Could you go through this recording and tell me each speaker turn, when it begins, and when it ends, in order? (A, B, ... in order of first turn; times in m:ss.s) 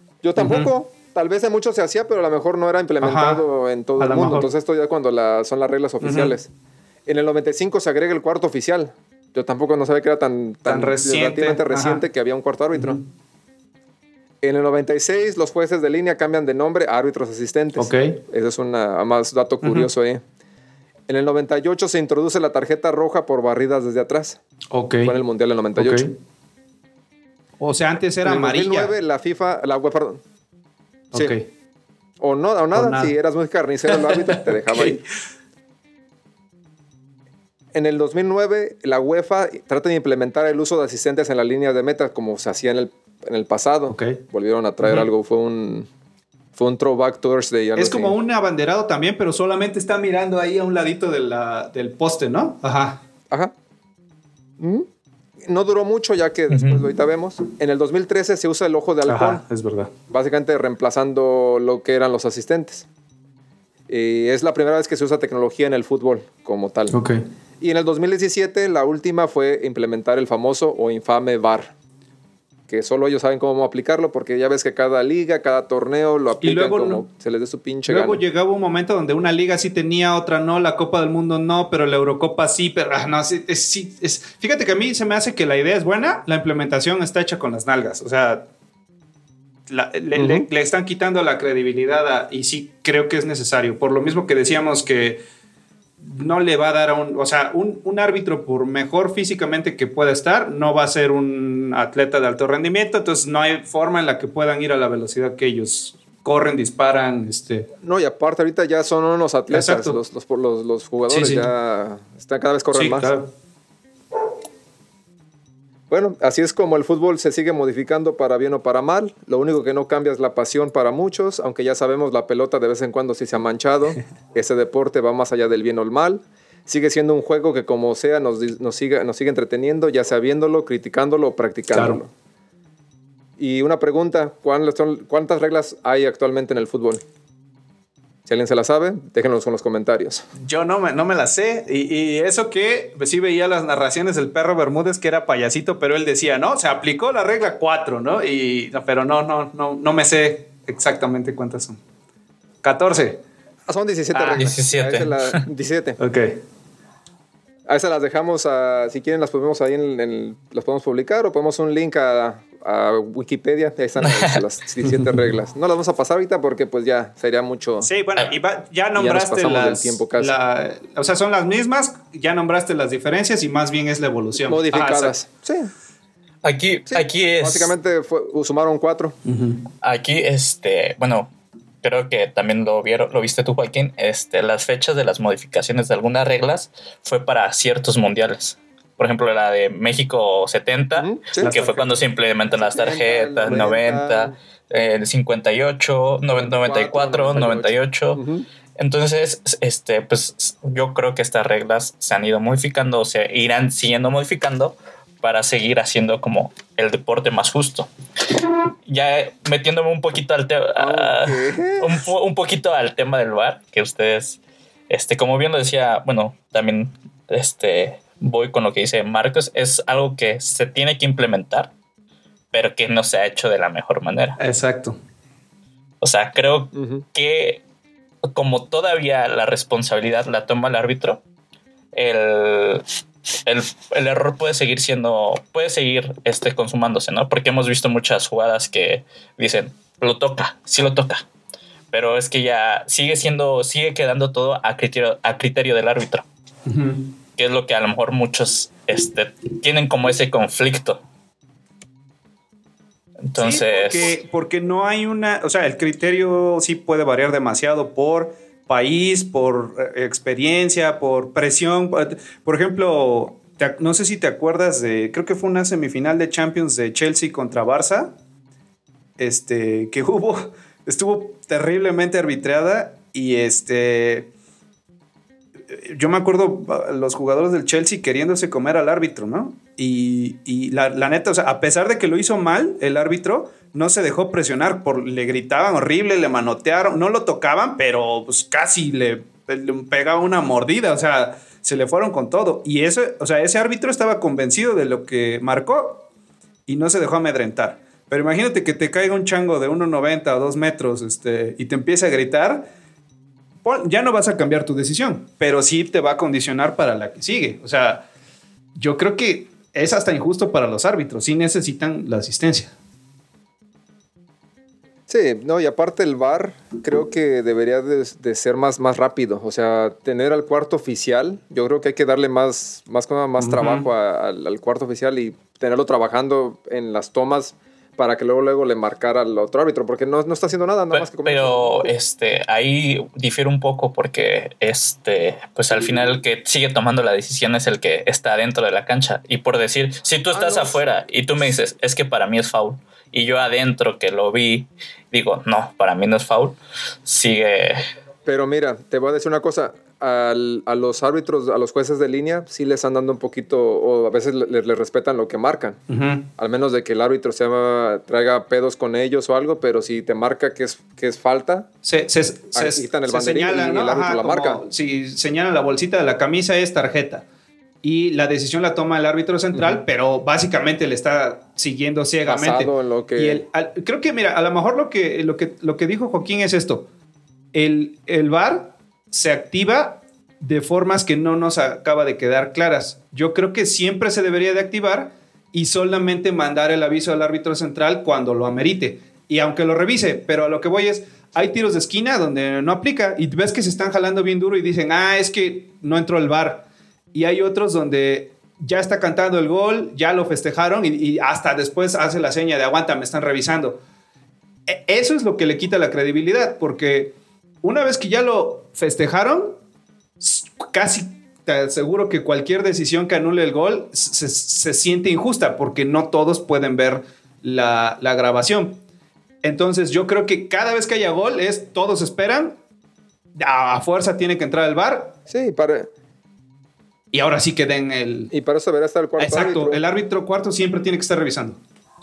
0:00.2-0:06.5 A
0:00.4-0:00.7 B
0:03.0-0:03.4 B
0:04.0-0:04.5 B
0:06.0-0:06.3 B
0:07.1-0:13.0 A
0:10.6-0:12.0 B
0:12.7-0:13.0 B
0:14.4-0:20.2 A
0:17.8-0:18.2 B
0:19.6-0:19.9 B
0:21.1-0:24.4 A
0:24.7-0:25.1 B
0:25.0-0:26.1 A
0:25.8-0:26.2 B
0:27.6-0:29.0 B
0:28.2-0:30.2 A
0:31.1-0:31.5 B
0:32.2-0:35.0 A
0:32.7-0:33.2 B
0:33.9-0:35.0 B
0:37.7-0:45.9 A
0:43.9-0:44.2 B
0:46.6-0:48.2 A
0:47.8-0:53.0 B
0:54.6-0:54.9 A
0:55.4-0:59.4 A
0:56.5-0:56.9 C
0:59.1-0:59.9 B
1:00.1-1:02.9 A
1:03.9-1:07.0 A
1:06.9-1:07.2 B
1:07.6-1:11.7 A
1:12.7-1:18.2 A
1:16.4-1:17.0 B
1:17.9-1:28.5 B
1:29.7-1:35.2 B
1:30.2-1:30.5 A
1:36.0-1:47.7 B
1:47.8-1:53.1 A
1:49.5-1:50.0 B
1:51.1-1:51.5 B
1:52.7-1:53.3 B
1:55.9-2:12.1 A
2:11.7-2:12.0 B
2:13.4-2:17.0 A
2:18.3-2:20.2 A
2:20.4-2:31.8 B
2:32.6-2:33.2 B
2:33.7-2:36.0 A
2:34.1-2:34.5 B
2:34.4-2:35.4 C
2:36.0-2:36.4 B
2:37.7-2:47.9 A
2:44.0-2:44.4 C
2:44.8-2:45.3 B
2:47.8-2:55.2 B
2:49.0-2:50.4 A
2:54.4-2:55.7 A
2:56.4-2:57.7 C
2:56.9-2:59.2 A
2:59.2-2:59.6 B
2:59.8-3:01.3 C
3:01.8-3:18.2 C
3:11.0-3:11.5 A
3:11.4-3:12.0 B
3:12.5-3:14.4 A
3:16.4-3:18.5 A
3:18.8-3:27.9 C
3:28.8-3:34.4 C
3:30.8-3:32.1 A
3:34.9-3:41.7 C
3:42.5-3:44.4 C
3:44.4-3:45.0 B
3:46.0-3:47.6 C
3:46.7-3:47.0 A
3:48.2-3:51.2 C
3:51.9-3:52.9 C
3:53.4-4:01.3 C
4:01.9-4:06.2 C
4:06.7-4:07.1 B
4:07.4-4:11.0 C
4:13.3-4:14.1 C
4:13.4-4:28.2 B
4:29.2-4:34.3 B
4:35.7-4:56.1 B
4:56.7-5:02.7 B
5:03.6-5:08.1 B
5:08.8-5:12.7 B
5:15.1-5:31.9 A
5:23.4-5:23.9 B
5:30.9-5:47.8 C
5:40.3-5:40.8 A
5:48.3-5:55.8 A
5:55.9-5:56.3 B
5:56.4-6:01.7 A
6:01.8-6:07.2 B
6:02.5-6:04.6 A
6:07.8-6:16.9 B
6:09.5-6:09.8 A
6:12.3-6:13.4 A
6:17.5-6:43.8 B
6:44.7-6:49.6 B
6:50.2-6:58.8 B
6:59.4-7:02.6 B
7:03.4-7:05.2 B
7:05.3-7:05.9 A
7:07.1-7:08.3 B
7:08.3-7:09.8 A
7:09.2-7:11.6 B